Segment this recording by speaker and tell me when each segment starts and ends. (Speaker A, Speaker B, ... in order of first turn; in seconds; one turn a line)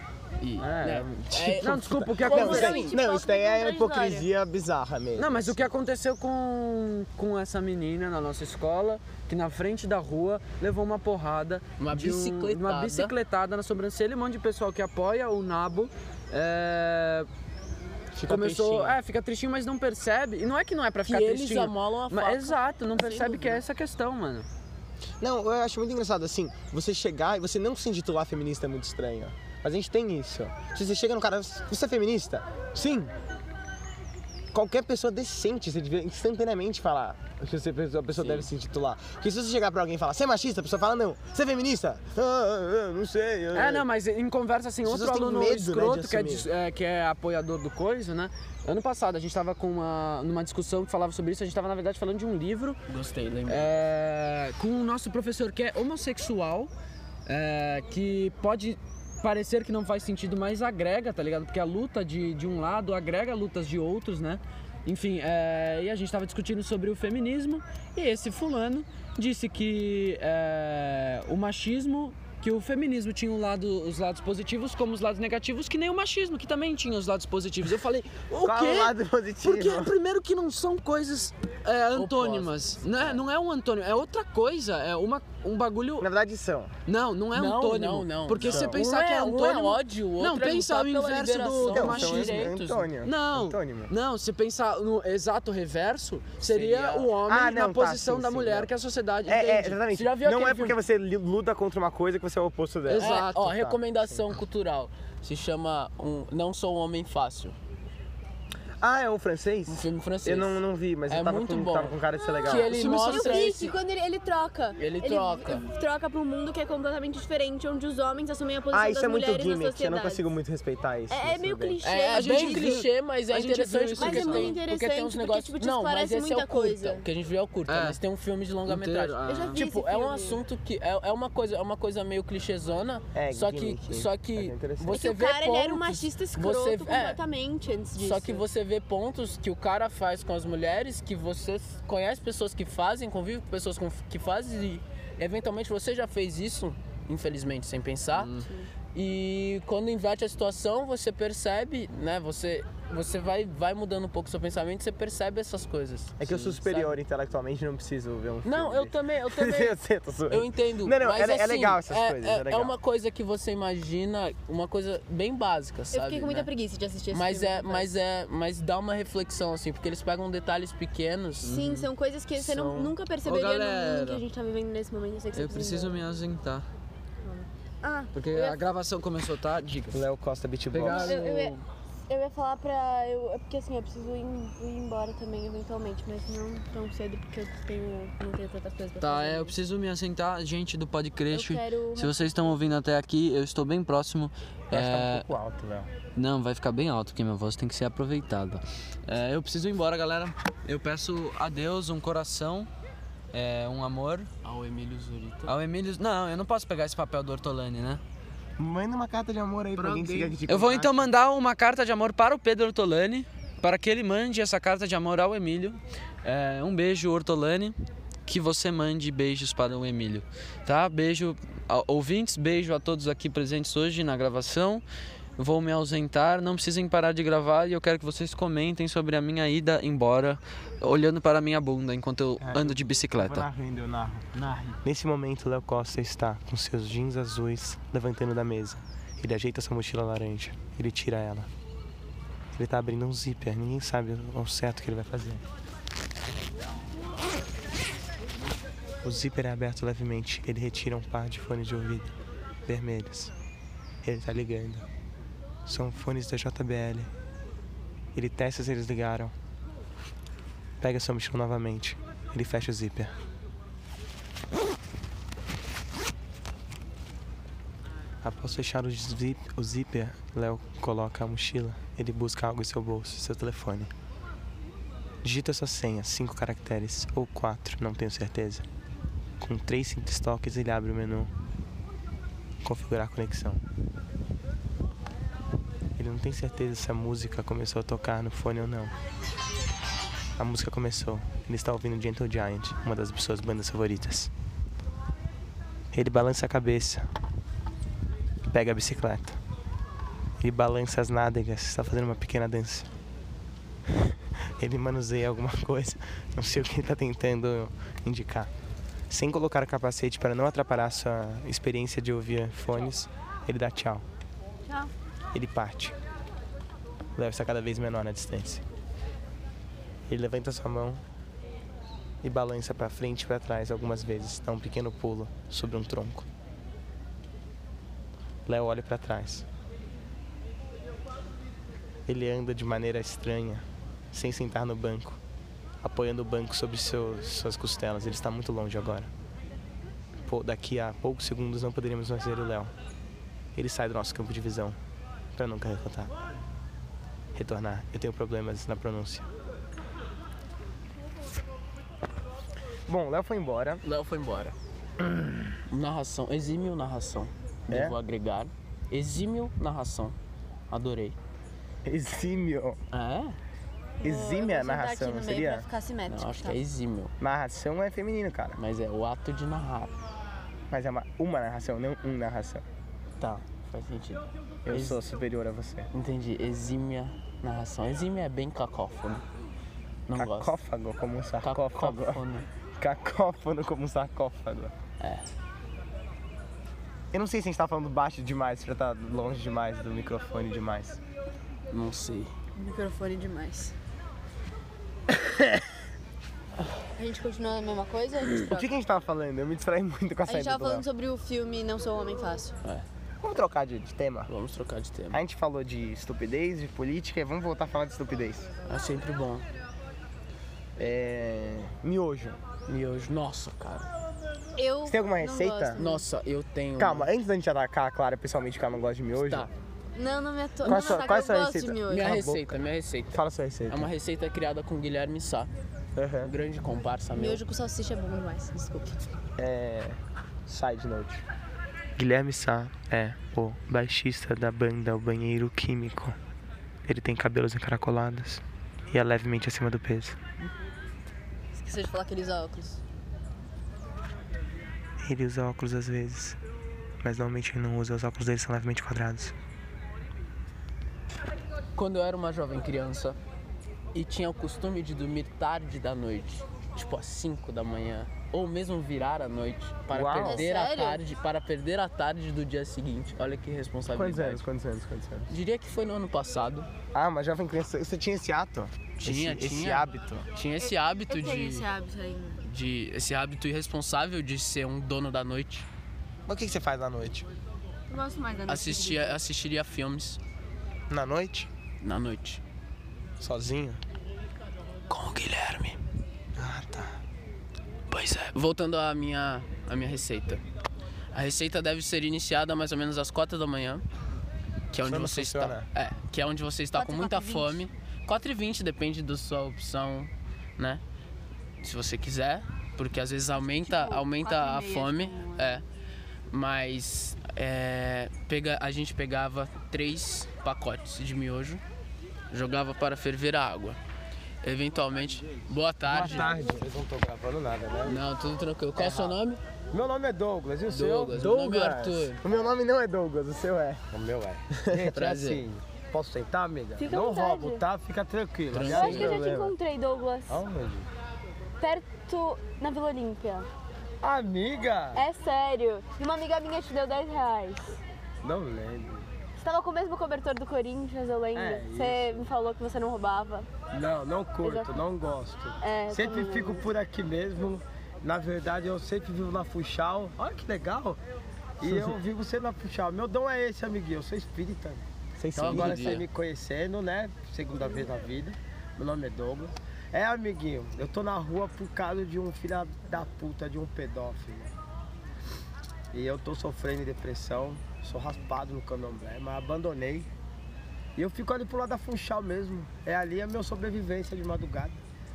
Speaker A: 0.4-2.9
Speaker B: 0.6-2.8
Speaker C: 1.3-5.7
Speaker D: 2.2-4.3
Speaker B: 5.2-17.3
Speaker A: 11.8-13.1
Speaker C: 18.1-19.0
Speaker B: 18.3-24.5
Speaker A: 21.1-23.6
Speaker C: 25.2-33.1
Speaker C: 34.5-43.9
Speaker B: 38.2-38.5
Speaker B: 43.5-52.8
Speaker C: 44.8-46.5
Speaker A: 52.9-53.8
Speaker B: 53.5-56.7
Speaker B: 57.3-86.1
Speaker C: 78.4-80.0
Speaker A: 81.9-82.8
Speaker C: 86.0-86.7
Speaker B: 86.9-92.5
Speaker A: 87.3-92.9
Speaker C: 88.5-88.8
Speaker C: 91.6-93.9
Speaker B: 93.0-99.9
Speaker A: 96.4-97.1
Speaker C: 97.1-98.7
Speaker C: 99.3-103.3
Speaker A: 99.9-100.8
Speaker B: 102.9-103.8
Speaker A: 102.9-107.6
Speaker C: 108.8-113.0
Speaker A: 109.7-113.8
Speaker B: 112.5-113.7
Speaker D: 112.6-120.3
Speaker A: 114.8-115.7
Speaker C: 118.7-121.8
Speaker D: 121.1-122.8
Speaker A: 121.8-137.2
Speaker B: 122.1-124.6
Speaker D: 124.0-127.0
Speaker B: 127.7-128.0
Speaker B: 128.7-129.6
Speaker D: 129.3-130.4
Speaker C: 133.1-135.0
Speaker D: 134.9-138.4
Speaker A: 138.0-148.3
Speaker B: 148.1-148.5
Speaker A: 148.9-157.0
Speaker C: 156.2-162.8
Speaker A: 158.4-159.8
Speaker A: 160.3-166.5
Speaker D: 165.9-168.0
Speaker A: 167.1-171.5
Speaker B: 171.4-174.2
Speaker D: 171.5-176.0
Speaker B: 175.3-176.7
Speaker D: 177.2-178.6
Speaker B: 178.1-180.0
Speaker C: 179.9-181.2
Speaker B: 180.7-181.6
Speaker D: 180.9-181.6
Speaker D: 182.1-189.5
Speaker B: 189.0-195.3
Speaker D: 191.3-192.6
Speaker C: 194.7-195.9
Speaker B: 196.2-202.7
Speaker B: 203.3-204.3
Speaker A: 204.4-205.5
Speaker B: 205.5-208.0
Speaker C: 208.6-211.1
Speaker A: 209.8-210.4
Speaker B: 210.5-217.8
Speaker B: 218.3-224.8
Speaker B: 225.4-233.5
Speaker C: 232.4-234.3
Speaker C: 234.8-241.5
Speaker C: 242.5-245.4
Speaker C: 249.0-252.2
Speaker C: 252.7-253.3
Speaker C: 254.0-254.9
Speaker C: 255.7-257.1
Speaker C: 258.1-259.3
Speaker C: 260.8-263.1
Speaker C: 268.2-273.9
Speaker C: 275.2-278.7
Speaker C: 279.4-281.3
Speaker C: 282.6-283.6
Speaker C: 286.0-288.9
Speaker C: 290.4-294.3
Speaker C: 295.9-297.1
Speaker C: 298.5-299.4
Speaker C: 300.4-302.9
Speaker C: 303.9-308.5
Speaker C: 309.1-314.1
Speaker D: 314.7-314.9
Speaker C: 315.3-316.0
Speaker C: 317.1-318.6
Speaker C: 320.1-321.0
Speaker C: 322.2-326.3
Speaker C: 328.5-329.5
Speaker C: 332.1-335.2
Speaker C: 335.8-339.1
Speaker C: 340.3-342.7
Speaker C: 343.6-344.8
Speaker C: 345.4-346.1
Speaker C: 347.3-349.3
Speaker C: 352.9-353.8
Speaker A: 353.8-354.6
Speaker A: 355.7-360.2
Speaker C: 357.7-358.0
Speaker A: 360.7-361.2
Speaker C: 361.9-362.8
Speaker A: 362.9-363.4
Speaker D: 364.0-366.6
Speaker C: 364.0-365.7
Speaker A: 366.1-367.1
Speaker C: 367.2-368.6
Speaker A: 368.6-369.9
Speaker C: 370.7-372.6
Speaker A: 373.2-375.0
Speaker C: 374.6-375.9
Speaker A: 375.9-379.2
Speaker A: 380.1-380.6
Speaker C: 380.1-382.2
Speaker A: 381.4-382.5
Speaker C: 382.8-384.8
Speaker A: 385.0-385.2
Speaker C: 387.1-391.0
Speaker A: 391.7-392.3
Speaker D: 392.6-393.7
Speaker D: 396.9-398.7
Speaker C: 398.4-400.9
Speaker D: 400.3-402.6
Speaker C: 403.2-404.3
Speaker A: 404.3-405.2
Speaker C: 405.1-408.5
Speaker A: 408.7-409.5
Speaker C: 410.8-412.4
Speaker A: 412.7-413.9
Speaker D: 414.6-416.1
Speaker C: 414.9-415.8
Speaker A: 415.8-417.1
Speaker C: 416.8-419.5
Speaker A: 419.1-419.5
Speaker D: 419.9-422.2
Speaker C: 420.6-422.6
Speaker A: 421.9-425.5
Speaker C: 423.1-423.9
Speaker C: 426.0-426.3
Speaker A: 426.2-427.4
Speaker D: 427.1-429.0
Speaker C: 429.4-431.2
Speaker C: 432.0-436.2
Speaker C: 436.9-440.2
Speaker D: 441.6-442.8
Speaker C: 445.0-446.4
Speaker C: 447.0-449.4
Speaker A: 451.8-453.2
Speaker A: 453.9-464.4
Speaker C: 459.9-460.5
Speaker D: 460.2-461.0
Speaker C: 463.9-465.3
Speaker A: 465.3-466.7
Speaker C: 466.9-470.3
Speaker A: 469.0-471.7
Speaker D: 470.6-472.4
Speaker A: 472.4-475.7
Speaker C: 476.3-477.3
Speaker D: 477.9-479.2
Speaker A: 478.5-480.2
Speaker C: 480.9-481.5
Speaker A: 481.8-482.4
Speaker C: 483.2-483.8
Speaker A: 484.9-485.8
Speaker C: 486.4-487.0
Speaker A: 487.9-490.4
Speaker A: 491.1-493.9
Speaker A: 494.7-500.8
Speaker C: 494.8-495.7
Speaker D: 496.7-497.6
Speaker A: 501.6-505.6
Speaker D: 503.4-505.6
Speaker A: 506.3-511.6
Speaker A: 512.3-513.8
Speaker A: 514.4-516.4
Speaker E: 515.9-518.0
Speaker C: 516.0-516.6
Speaker A: 517.8-519.4
Speaker E: 518.8-519.2
Speaker E: 519.7-521.2
Speaker A: 520.7-522.2
Speaker C: 521.1-523.9
Speaker E: 523.9-529.3
Speaker C: 524.5-524.9
Speaker A: 524.9-525.4
Speaker D: 526.8-527.6
Speaker A: 528.5-529.2
Speaker C: 528.7-529.5
Speaker D: 528.7-530.4
Speaker E: 530.3-530.9
Speaker D: 531.6-533.5
Speaker E: 534.0-535.0
Speaker D: 535.0-537.8
Speaker E: 538.2-539.1
Speaker D: 539.4-543.5
Speaker E: 541.3-542.3
Speaker E: 543.7-551.0
Speaker D: 544.4-544.7
Speaker D: 545.6-546.7
Speaker E: 551.6-554.8
Speaker C: 551.6-551.9
Speaker C: 555.2-556.0
Speaker A: 555.4-556.0
Speaker E: 555.4-564.5
Speaker E: 565.9-570.1
Speaker E: 571.0-574.8